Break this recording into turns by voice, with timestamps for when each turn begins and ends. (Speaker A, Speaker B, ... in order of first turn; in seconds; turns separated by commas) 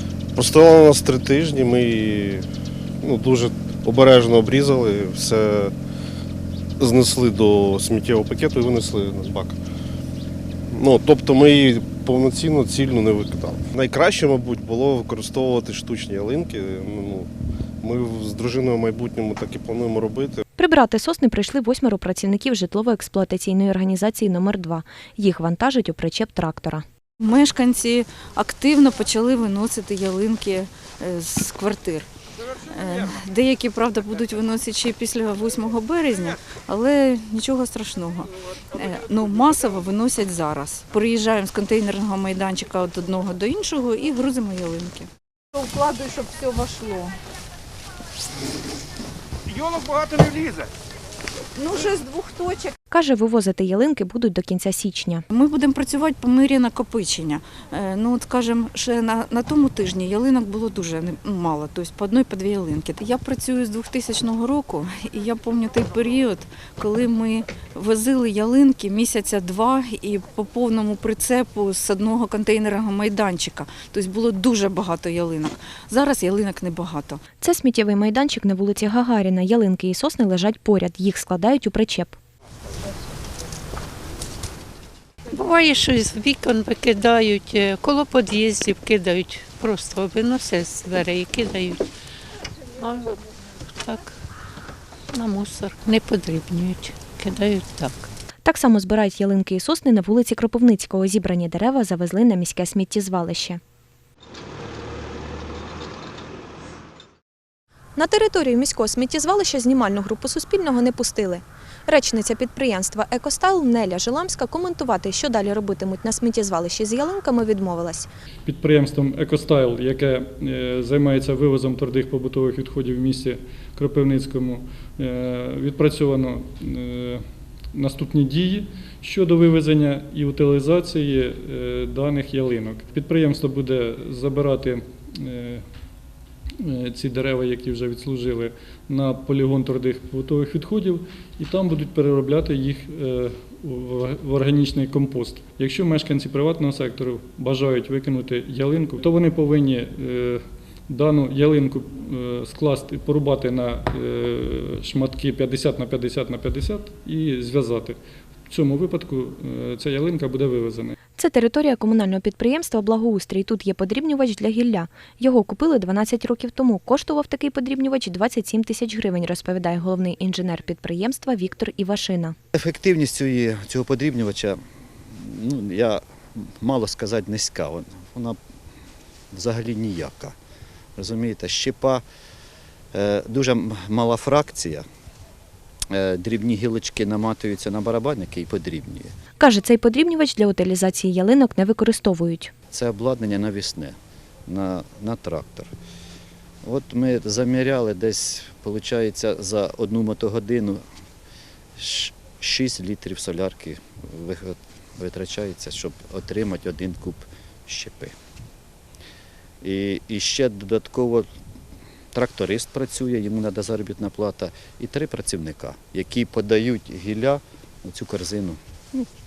Speaker A: 0.3-2.5, Speaker A: 3.0-5.7, Speaker A: 6.8-9.6, Speaker A: 10.7-17.3, Speaker A: 17.8-20.4, Speaker B: 20.6-26.8, Speaker C: 27.2-32.1, Speaker C: 32.7-47.2, Speaker C: 51.5-52.7, Speaker B: 52.9-55.2, Speaker C: 55.3-77.2, Speaker B: 77.4-82.2, Speaker D: 85.3-91.8, Speaker D: 92.8-93.2, Speaker D: 93.8-94.1, Speaker D: 95.1-98.1, Speaker B: 98.4-103.6, Speaker B: 108.0-118.1, Speaker E: 118.5-135.7, Speaker E: 136.6-160.9, Speaker B: 161.2-172.3, Speaker F: 172.5-174.6, Speaker F: 175.1-178.4, Speaker F: 179.3-180.3, Speaker F: 180.9-182.0, Speaker F: 182.9-184.8, Speaker F: 185.9-189.1, Speaker B: 189.4-192.5, Speaker F: 192.7-193.9, Speaker F: 194.5-195.7, Speaker F: 196.6-200.8, Speaker F: 201.8-208.1, Speaker F: 209.6-211.3, Speaker F: 212.1-218.6